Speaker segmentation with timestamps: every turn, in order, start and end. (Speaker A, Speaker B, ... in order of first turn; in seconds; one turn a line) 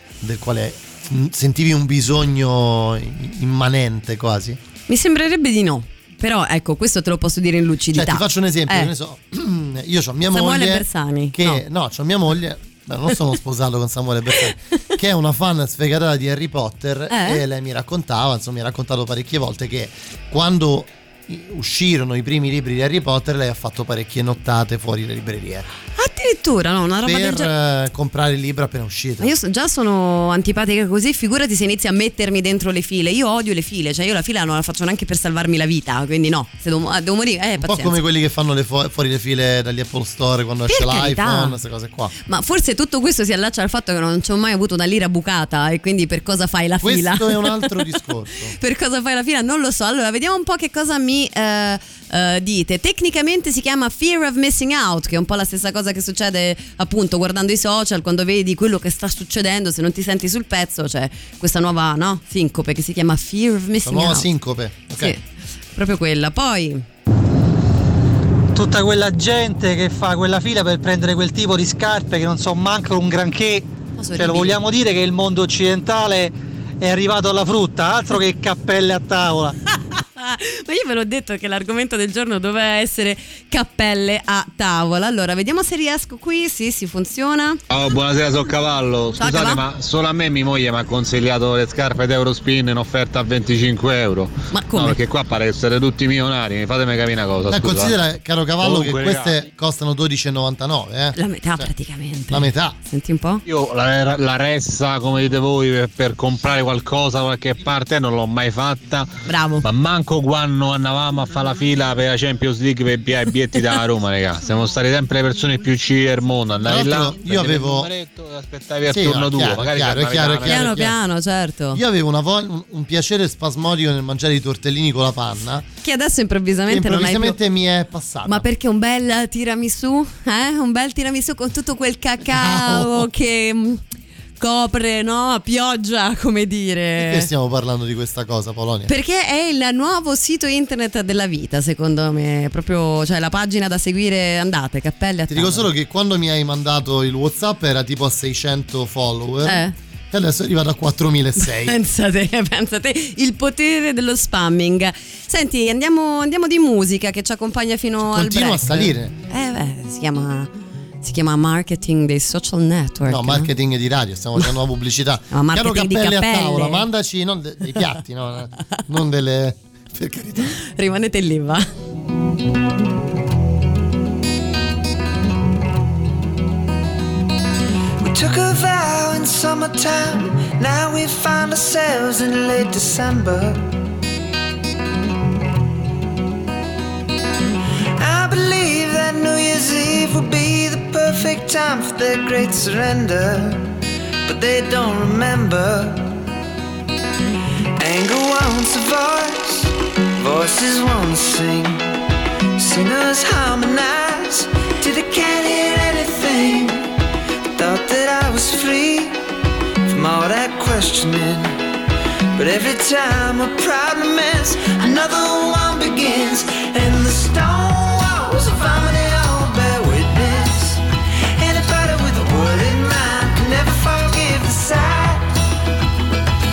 Speaker A: 0.2-4.6
Speaker B: 4.9-8.9
Speaker A: 7.9-25.7
Speaker B: 10.3-11.6
Speaker B: 17.1-17.4
Speaker B: 26.0-27.5
Speaker A: 27.0-29.3
Speaker B: 29.2-38.0
Speaker A: 37.6-42.1
Speaker B: 40.7-41.5
Speaker B: 42.2-47.8
Speaker A: 46.8-48.5
Speaker B: 48.6-64.3
Speaker A: 63.8-65.1
Speaker B: 65.0-65.2
Speaker B: 65.8-66.8
Speaker C: 68.5-73.7
Speaker B: 74.0-74.6
Speaker C: 74.2-79.5
Speaker B: 79.8-87.6
Speaker D: 87.7-98.0
Speaker B: 89.2-89.6
Speaker B: 94.5-95.0
Speaker A: 97.5-101.7
Speaker D: 98.6-99.4
Speaker B: 101.1-103.4
Speaker A: 102.3-102.8
Speaker D: 103.5-109.1
Speaker B: 109.3-109.7
Speaker D: 109.6-120.7
Speaker A: 116.6-117.9
Speaker A: 118.9-120.9
Speaker B: 120.5-121.8
Speaker A: 121.7-125.7
Speaker B: 125.8-127.4
Speaker A: 126.7-128.4
Speaker B: 128.2-133.8
Speaker A: 132.2-133.1
Speaker B: 134.4-137.3
Speaker A: 137.0-138.9
Speaker B: 138.9-145.7
Speaker A: 145.3-151.8
Speaker B: 149.4-149.7
Speaker B: 151.4-160.5
Speaker A: 158.0-159.1
Speaker B: 161.0-163.5
Speaker A: 163.1-170.6
Speaker B: 165.3-166.8
Speaker B: 170.6-171.6
Speaker E: 178.0-183.7
Speaker E: 188.0-193.7
Speaker E: 194.2-196.2
Speaker E: 197.8-201.9
Speaker E: 202.6-206.9
Speaker E: 207.5-209.2
Speaker E: 209.8-211.6
Speaker E: 212.3-220.8
Speaker E: 221.4-225.3